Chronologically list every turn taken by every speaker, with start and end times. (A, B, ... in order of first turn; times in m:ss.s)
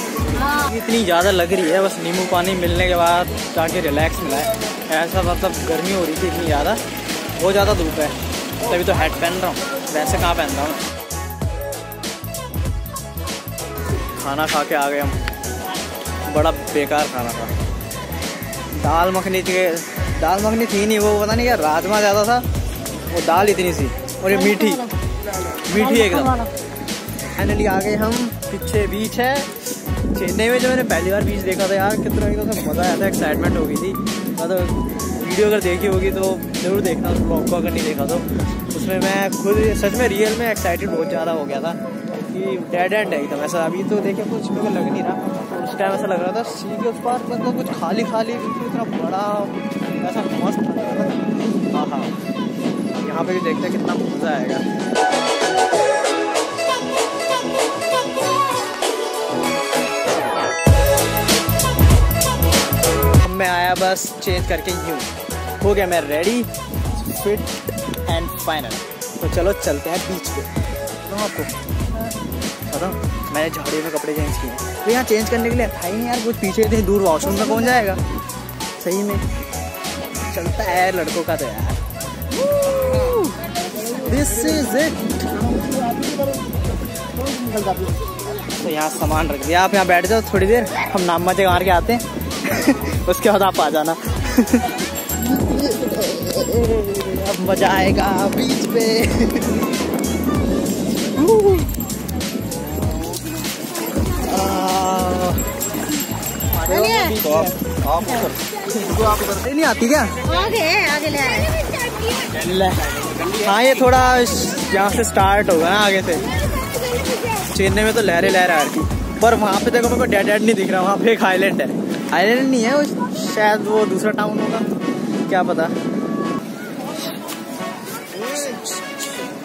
0:00.5-0:06.8 A
0:07.4-0:10.8 A
0:14.2-0:15.2 A
0:16.3-0:17.5 A
0:18.8-0:22.4 A
0:23.1-0:24.9 A
0:24.4-0:24.9 B
0:25.7-0:26.4 A
0:25.8-0:26.5 B
0:27.3-0:29.5 A
0:30.1-0:52.2 A
0:52.9-0:54.7 A
1:03.2-1:10.5 A
1:11.0-1:12.2 A
1:12.7-1:18.0 A
1:18.8-1:19.2 A
1:20.3-1:21.8 A
1:22.6-1:23.3 A
1:23.9-1:25.4 A
1:28.6-1:34.7 A
1:36.0-1:39.5 A
1:41.2-1:41.7 A
1:44.1-1:45.5 A
1:46.6-1:47.6 A
1:46.7-1:47.2 B
1:48.7-1:50.2 A
1:50.2-1:52.3 B
1:52.3-1:56.3 A
1:57.4-2:04.7 A
2:05.3-2:05.7 A
2:08.2-2:08.9 A